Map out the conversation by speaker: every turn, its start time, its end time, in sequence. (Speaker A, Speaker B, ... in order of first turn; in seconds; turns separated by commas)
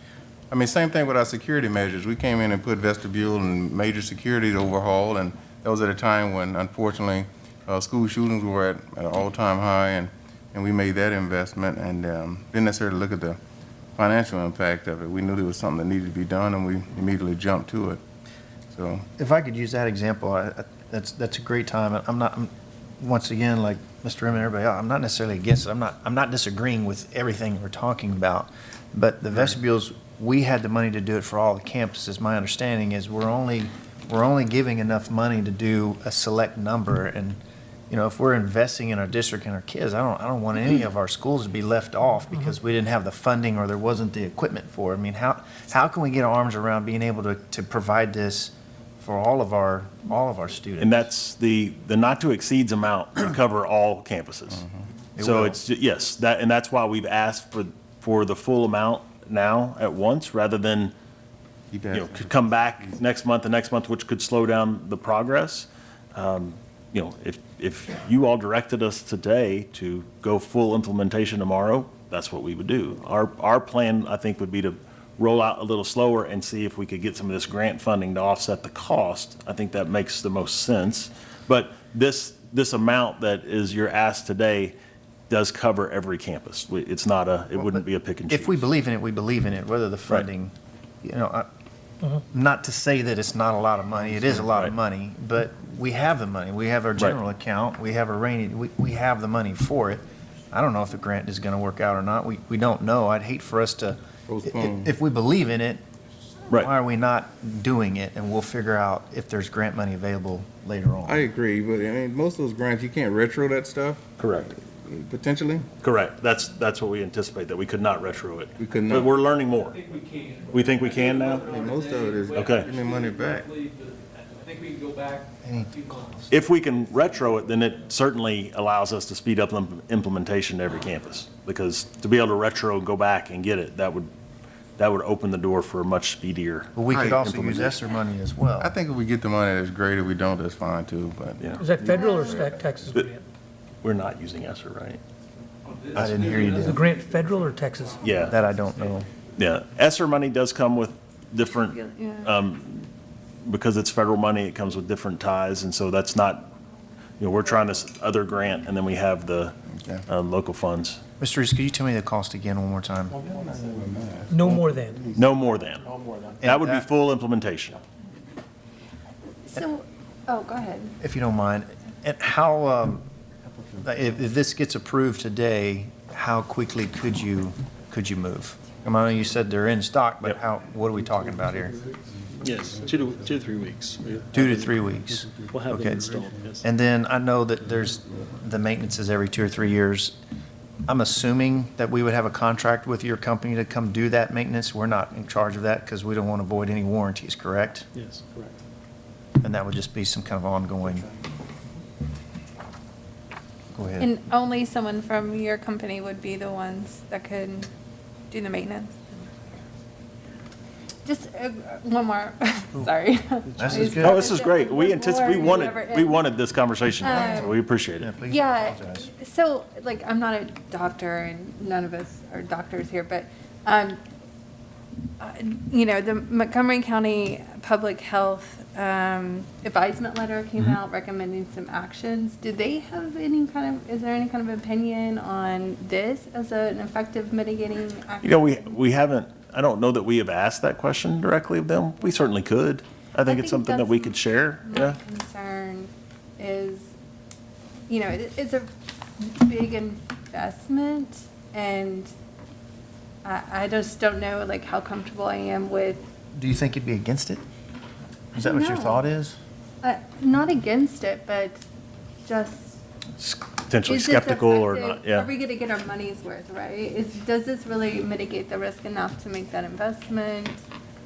Speaker A: 0.5-13.4, Speaker A: 14.0-18.0, Speaker A: 18.7-19.1, Speaker B: 19.2-37.4, Speaker B: 37.9-51.1, Speaker C: 50.8-54.6, Speaker B: 55.2-55.6, Speaker C: 55.2-60.9, Speaker A: 61.7-62.5, Speaker C: 61.9-84.7, Speaker C: 85.3-88.6, Speaker B: 87.5-91.5, Speaker B: 92.3-105.8, Speaker C: 94.2-94.7, Speaker A: 104.3-104.9, Speaker B: 106.5-111.2, Speaker A: 111.0-114.0, Speaker C: 114.2-114.5, Speaker A: 114.6-115.7, Speaker C: 115.8-119.8, Speaker A: 118.6-119.1, Speaker D: 119.0-127.6, Speaker C: 120.5-121.5, Speaker A: 121.4-123.5, Speaker C: 122.3-122.7, Speaker B: 125.4-126.3, Speaker C: 126.3-134.1, Speaker C: 134.8-137.7, Speaker B: 136.7-138.7, Speaker A: 136.9-137.7, Speaker A: 138.6-142.8, Speaker C: 141.4-141.6, Speaker E: 141.6-143.2, Speaker F: 141.8-142.4, Speaker C: 143.8-145.0, Speaker D: 145.6-149.1, Speaker B: 145.9-146.8, Speaker E: 146.6-148.0, Speaker C: 148.0-148.4, Speaker B: 148.2-149.1, Speaker C: 149.3-152.9, Speaker F: 151.6-152.4, Speaker C: 153.4-156.5, Speaker C: 157.2-159.5, Speaker C: 160.1-161.0, Speaker B: 161.2-163.2, Speaker A: 163.2-165.1, Speaker E: 164.3-165.0, Speaker C: 165.1-165.9, Speaker G: 166.0-166.3, Speaker B: 166.4-166.8, Speaker C: 166.4-167.8, Speaker F: 169.5-170.9, Speaker B: 171.0-173.0, Speaker B: 173.8-181.8, Speaker A: 182.2-183.3, Speaker G: 182.4-186.6, Speaker C: 182.4-182.8, Speaker B: 184.3-190.2, Speaker B: 190.9-197.9, Speaker G: 197.9-198.5, Speaker B: 199.4-201.1, Speaker B: 203.7-204.1, Speaker F: 204.0-207.7, Speaker F: 208.3-209.1, Speaker F: 211.0-216.3, Speaker B: 213.6-214.3, Speaker C: 214.0-218.1, Speaker F: 217.0-217.6, Speaker B: 217.2-219.1, Speaker F: 218.3-224.0, Speaker F: 225.2-238.8, Speaker C: 238.2-245.0, Speaker F: 243.2-246.9, Speaker F: 247.9-252.1, Speaker F: 253.2-256.1, Speaker B: 256.3-257.4, Speaker F: 258.3-259.1, Speaker B: 258.3-259.4, Speaker F: 259.8-261.6, Speaker F: 262.2-262.8, Speaker C: 263.2-265.3, Speaker F: 263.9-270.6